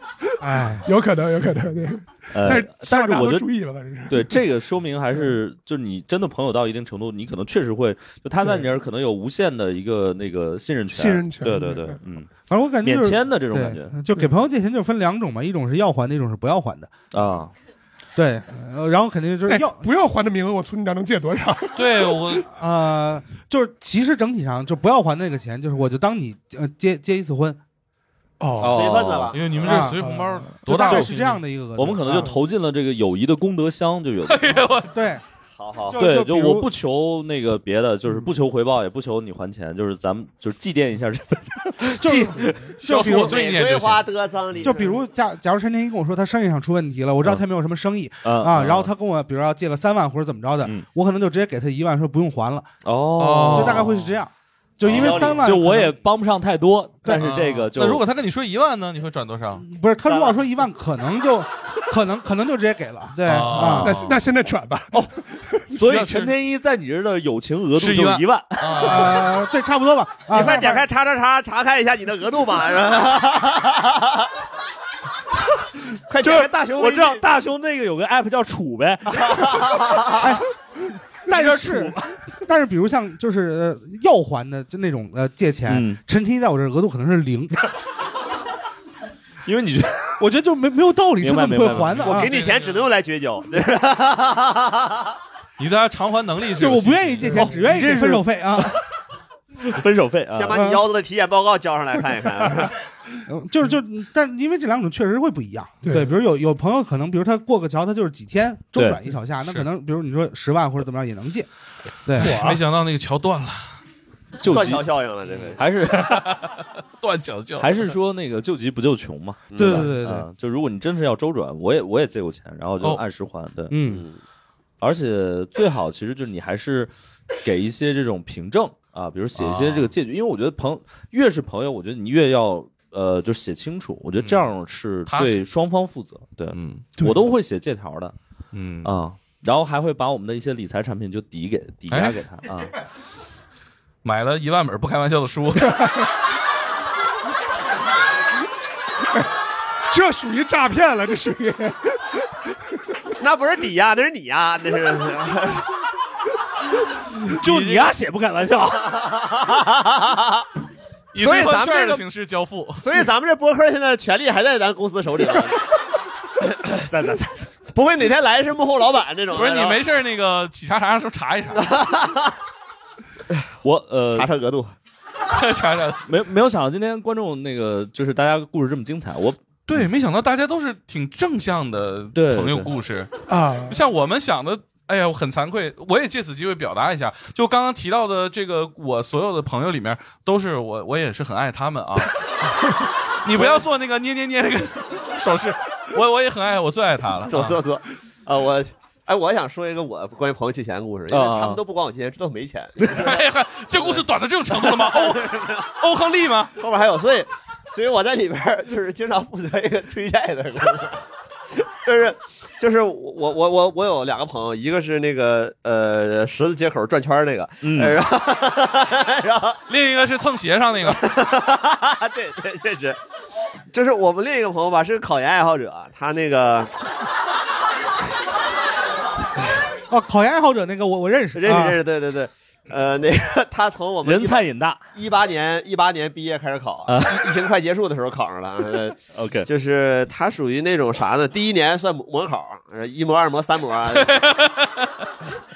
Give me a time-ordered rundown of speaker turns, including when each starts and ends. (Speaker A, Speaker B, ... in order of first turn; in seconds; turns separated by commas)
Speaker A: 0.4-0.9, Speaker B: 0.8-4.4, Speaker C: 2.3-3.5, Speaker C: 4.1-12.3, Speaker B: 10.9-12.0, Speaker A: 12.5-16.9, Speaker C: 12.8-14.0, Speaker C: 17.1-17.5, Speaker A: 18.1-19.9, Speaker B: 19.5-22.3, Speaker D: 21.8-22.4, Speaker A: 22.5-27.6, Speaker B: 28.4-28.9, Speaker C: 28.6-29.3, Speaker E: 28.6-29.8, Speaker D: 29.3-31.4, Speaker A: 29.6-32.4, Speaker C: 31.7-34.7, Speaker D: 34.3-35.0, Speaker A: 34.9-35.2, Speaker E: 35.6-36.0, Speaker A: 35.9-36.7, Speaker C: 36.0-42.5, Speaker A: 42.0-43.4, Speaker D: 42.8-44.1, Speaker E: 43.1-45.0, Speaker A: 44.6-52.7, Speaker C: 48.2-48.9, Speaker C: 52.8-54.0, Speaker D: 53.2-53.9, Speaker A: 53.5-55.9, Speaker C: 54.8-58.0, Speaker E: 54.9-55.5, Speaker D: 57.1-59.6, Speaker A: 59.6-63.9, Speaker E: 60.0-60.4, Speaker D: 63.2-64.2, Speaker C: 63.5-63.8, Speaker B: 63.8-65.6, Speaker C: 65.7-69.2, Speaker D: 65.8-66.3, Speaker D: 67.8-69.3, Speaker A: 68.8-70.8, Speaker E: 70.3-74.3, Speaker E: 76.1-77.2, Speaker C: 76.2-79.6, Speaker E: 79.1-80.3, Speaker A: 80.2-80.4, Speaker A: 81.2-87.5, Speaker C: 81.3-82.2, Speaker C: 85.7-86.0, Speaker C: 89.5-90.2, Speaker A: 90.2-92.3, Speaker C: 91.2-92.0, Speaker D: 91.6-92.9, Speaker E: 92.0-95.2, Speaker D: 95.6-97.6, Speaker A: 96.5-98.8, Speaker B: 97.2-97.6, Speaker C: 97.5-98.7, Speaker C: 99.7-100.6, Speaker E: 100.3-102.7, Speaker A: 100.5-100.8, Speaker A: 103.3-111.5, Speaker B: 105.8-106.1, Speaker C: 108.8-109.0, Speaker A: 112.0-112.4, Speaker B: 112.2-112.6, Speaker D: 112.2-113.7, Speaker C: 114.4-114.8, Speaker E: 114.5-115.6, Speaker C: 115.6-116.4, Speaker D: 116.0-117.8, Speaker C: 117.6-123.8, Speaker E: 119.5-119.9, Speaker A: 119.5-120.3, Speaker A: 123.7-124.0, Speaker E: 123.8-124.2, Speaker C: 124.8-126.9, Speaker C: 127.4-138.1, Speaker D: 129.4-129.9, Speaker D: 134.2-134.4, Speaker D: 135.1-135.4, Speaker D: 136.5-136.8, Speaker D: 138.5-138.9, Speaker C: 138.8-142.7, Speaker D: 141.9-142.2, Speaker D: 144.0-146.1, Speaker B: 149.9-152.0, Speaker E: 153.2-155.7, Speaker C: 157.2-159.0, Speaker D: 157.4-157.9, Speaker E: 158.9-160.4, Speaker D: 161.1-162.8, Speaker E: 161.1-162.0, Speaker E: 162.8-165.6, Speaker C: 166.8-167.7, Speaker E: 167.7-169.8, Speaker D: 169.3-171.7, Speaker E: 171.6-172.3, Speaker C: 173.6-174.3, Speaker E: 174.1-174.7, Speaker D: 175.3-176.0, Speaker C: 176.0-179.8, Speaker D: 179.7-183.1, Speaker C: 182.1-182.7, Speaker B: 183.3-183.8, Speaker D: 183.7-192.1, Speaker D: 193.2-197.6, Speaker E: 193.3-193.6, Speaker E: 197.3-205.7, Speaker C: 201.1-201.6, Speaker D: 202.9-206.5, Speaker E: 206.6-211.0, Speaker E: 211.8-219.6, Speaker C: 217.6-218.0, Speaker D: 219.7-221.0, Speaker E: 220.8-223.0, Speaker E: 223.7-226.7, Speaker A: 229.9-231.8, Speaker E: 231.3-244.3, Speaker C: 234.0-234.8, Speaker C: 236.9-237.3, Speaker C: 239.1-239.5, Speaker D: 244.1-244.7